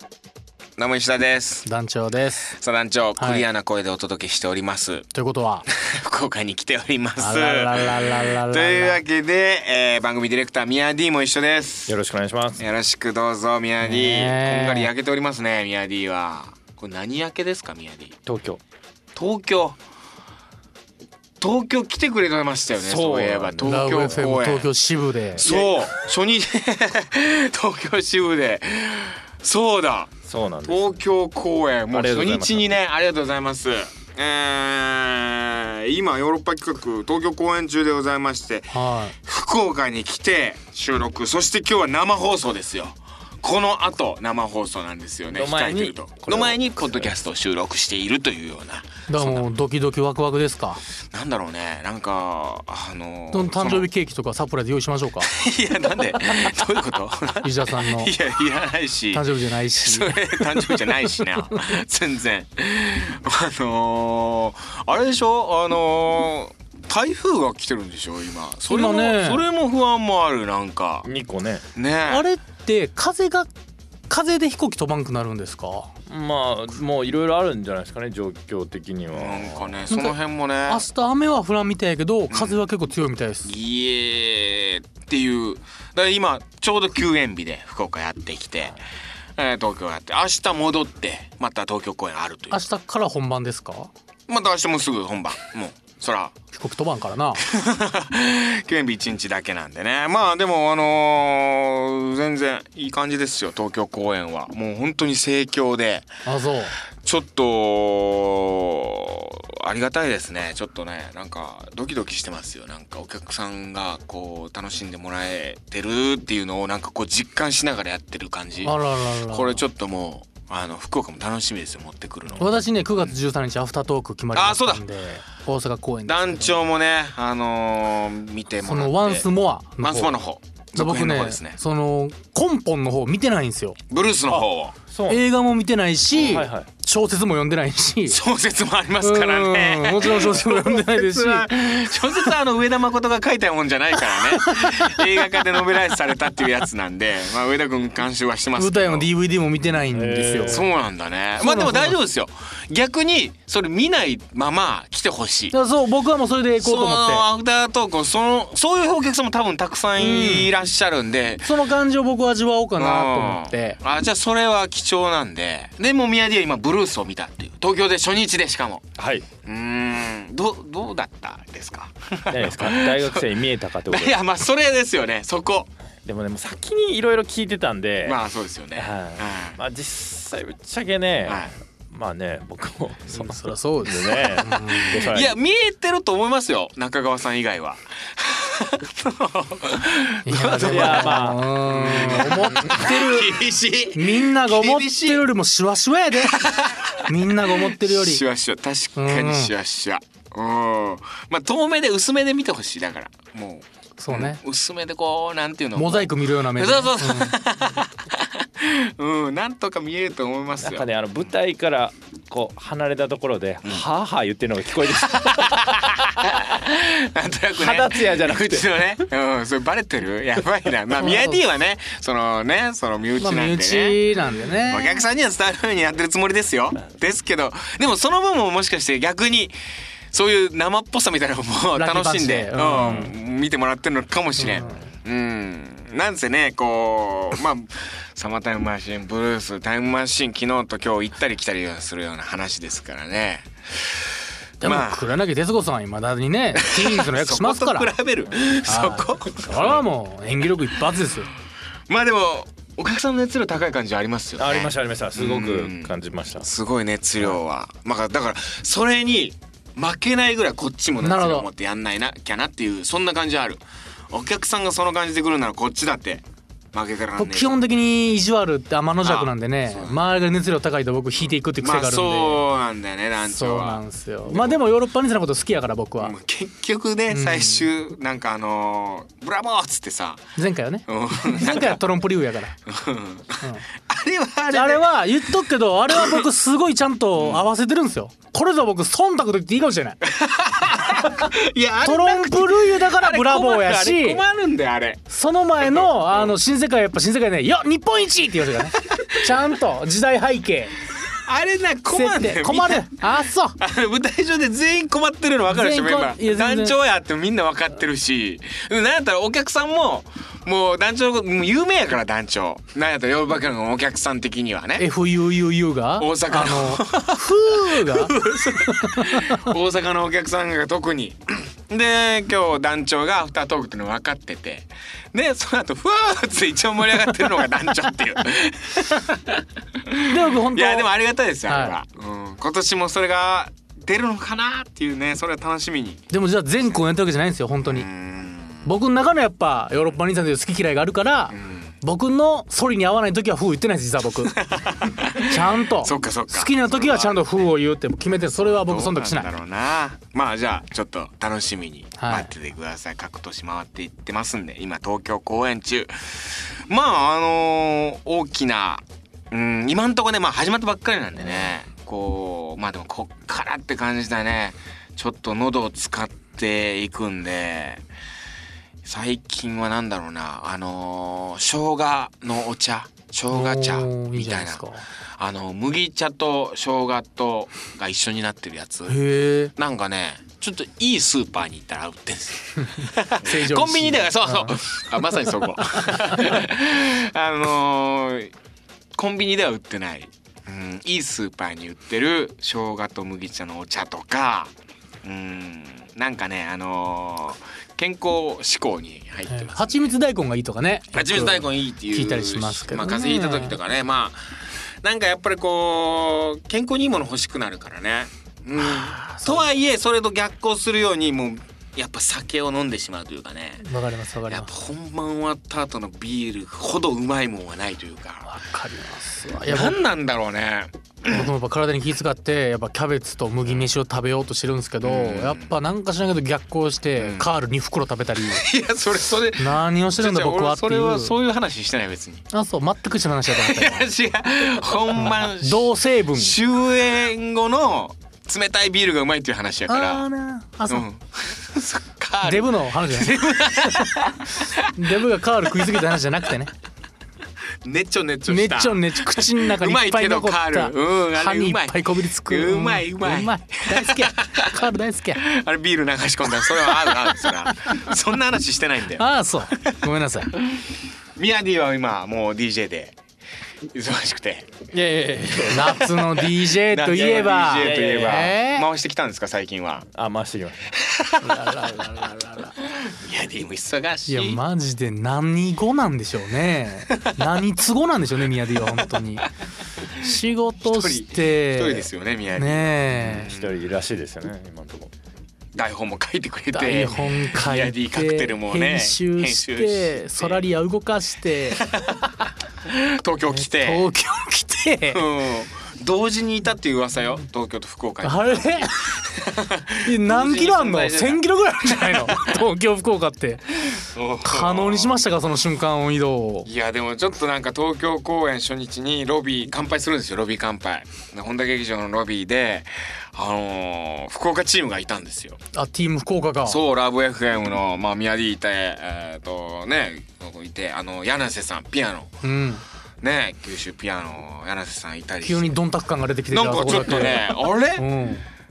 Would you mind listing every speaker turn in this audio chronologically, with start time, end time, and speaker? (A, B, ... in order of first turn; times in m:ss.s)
0:00.8-0:01.6 A
0:01.6-0:02.5 B
0:02.5-0:05.1 A
0:03.2-0:03.4 B
0:05.1-0:05.6 B
0:05.8-0:12.0 A
0:07.2-0:09.0 B
0:11.9-0:12.6 C
0:12.6-0:18.2 A
0:13.8-0:14.9 B
0:18.2-0:18.6 C
0:19.1-0:19.8 A
0:21.4-0:24.7 A
0:22.8-0:23.9 C
0:23.6-0:25.4 B
0:25.4-0:30.1 A
0:25.4-0:25.8 C
0:30.2-0:31.0 C
0:30.6-0:49.5 A
0:31.9-0:32.7 C
0:38.7-0:39.1 B
0:45.3-0:47.2 C
0:49.1-0:50.8 B
0:51.1-0:53.9 A
0:53.3-0:55.3 B
0:55.2-0:59.2 A
0:57.4-0:58.1 B
0:59.1-1:01.6 B
0:59.8-1:11.1 A
1:08.7-1:09.4 B
1:11.0-1:11.6 C
1:11.8-1:12.2 A
1:12.0-1:13.5 B
1:14.1-1:15.9 B
1:16.1-1:19.9 C
1:19.1-1:20.8 A
1:19.9-1:20.2 B
1:20.7-1:23.5 B
1:22.3-1:22.6 A
1:23.4-1:28.7 A
1:29.4-1:32.6 A
1:32.5-1:33.9 B
1:34.3-1:36.3 A
1:36.5-1:37.4 B
1:37.4-1:46.1 A
1:46.2-1:46.8 B
1:47.0-1:58.8 A
1:58.6-1:59.6 B
1:59.3-2:03.1 A
2:02.4-2:06.6 B
2:04.3-2:04.8 A
2:06.0-2:09.2 A
2:08.6-2:10.1 B
2:09.8-2:11.6 A
2:10.7-2:13.8 B
2:13.9-2:14.7 A
2:14.3-2:15.2 C
2:15.1-2:18.2 B
2:16.1-2:16.4 A
2:16.3-2:16.7 C
2:18.1-2:29.1 A
2:19.0-2:21.5 B
2:24.4-2:25.4 B
2:28.6-2:30.6 B
2:29.9-2:30.7 C
2:30.5-2:35.6 A
2:31.4-2:32.0 B
2:35.5-2:37.2 B
2:36.6-2:41.6 A
2:40.0-2:40.5 B
2:41.4-2:43.8 B
2:42.8-2:48.8 A
2:49.0-2:49.3 C
2:49.4-2:53.2 A
2:52.3-2:54.2 C
2:53.9-2:55.7 A
2:56.0-2:58.2 C
2:58.0-2:59.6 A
2:58.7-3:05.4 C
3:01.3-3:01.5 A
3:03.1-3:05.0 B
3:04.8-3:15.2 A
3:10.2-3:13.0 B
3:10.7-3:13.3 C
3:13.9-3:16.4 B
3:16.2-3:30.9 A
3:17.1-3:18.2 B
3:19.0-3:19.5 B
3:24.0-3:24.4 B
3:25.8-3:27.3 B
3:30.6-3:36.0 C
3:35.0-3:44.0 A
3:37.5-3:38.8 C
3:41.0-3:41.4 B
3:43.2-3:45.0 B
3:44.6-3:49.6 A
3:50.1-4:03.9 A
3:51.8-3:53.1 B
3:54.4-3:54.9 B
4:04.6-4:07.9 B
4:04.6-4:05.1 A
4:06.6-4:09.8 A
4:08.7-4:11.3 B
4:11.9-4:27.6 A
4:14.4-4:16.5 C
4:21.0-4:21.5 B
4:27.2-4:32.4 B
4:29.0-4:30.0 A
4:31.6-4:34.6 A
4:33.2-4:36.1 B
4:36.0-4:40.3 A
4:37.1-4:37.7 B
4:40.4-4:42.5 B
4:40.9-4:41.8 A
4:42.7-4:45.0 A
4:44.5-4:50.0 B
4:45.9-4:46.2 A
4:47.2-4:47.4 A
4:50.1-4:55.0 A
4:51.8-4:54.2 B
4:55.1-5:00.7 B
4:55.6-4:56.4 A
4:58.8-4:59.2 A
5:01.1-5:03.0 A
5:01.9-5:03.6 B
5:03.6-5:14.9 A
5:05.5-5:06.7 B
5:14.8-5:19.5 B
5:16.0-5:36.0 A
5:30.1-5:30.9 B
5:31.5-5:31.8 B
5:36.1-5:37.9 B
5:37.6-5:38.7 A
5:38.6-5:44.4 B
5:41.3-5:41.7 A
5:44.3-5:47.5 A
5:45.2-5:49.3 B
5:48.4-6:07.8 A
5:52.0-5:52.3 B
6:08.8-6:14.6 A
6:13.3-6:14.8 B
6:15.2-6:19.0 A
6:18.9-6:19.5 B
6:19.6-6:28.3 A
6:22.8-6:24.6 B
6:29.0-6:34.5 A
6:35.0-6:39.9 A
6:39.3-6:43.6 B
6:40.9-6:44.2 A
6:44.8-6:53.6 A
6:48.6-6:49.5 B
6:53.6-6:54.5 B
6:54.3-6:58.3 A
6:58.2-6:59.8 B
6:59.4-7:01.3 A
7:01.1-7:08.4 B
7:04.8-7:05.5 A
7:07.0-7:07.3 A
7:08.3-7:12.3 A
7:09.4-7:11.1 B
7:12.3-7:13.9 B
7:13.3-7:20.0 A
7:14.9-7:16.3 B
7:19.7-7:20.8 B
7:20.7-7:24.7 A
7:22.2-7:23.1 B
7:24.7-7:26.5 B
7:27.6-7:34.6 A
7:28.3-7:35.2 B
7:35.2-7:39.8 A
7:39.0-7:40.3 B
7:40.3-7:40.6 A
7:41.2-7:43.0 A
7:43.7-7:44.5 A
7:44.7-7:45.9 C
7:45.5-7:48.6 B
7:46.6-7:49.9 A
7:47.6-7:48.3 C
7:49.9-7:50.7 C
7:50.9-7:51.5 A
7:51.2-7:52.6 B
7:52.9-7:54.4 A
7:54.1-7:59.2 B
8:00.0-8:03.3 B
8:00.6-8:03.5 A
8:03.2-8:04.9 C
8:05.5-8:10.4 A
8:06.5-8:11.6 B
8:11.6-8:12.1 A
8:12.6-8:13.9 A
8:13.4-8:15.0 B
8:14.9-8:22.4 A
8:18.0-8:18.8 B
8:19.8-8:23.6 B
8:23.8-8:25.0 A
8:24.2-8:26.5 B
8:26.4-8:35.4 A
8:35.5-8:36.6 B
8:36.4-8:42.1 A
8:42.2-8:42.6 B
8:43.0-8:45.5 A
8:45.2-8:48.2 B
8:46.3-8:47.8 A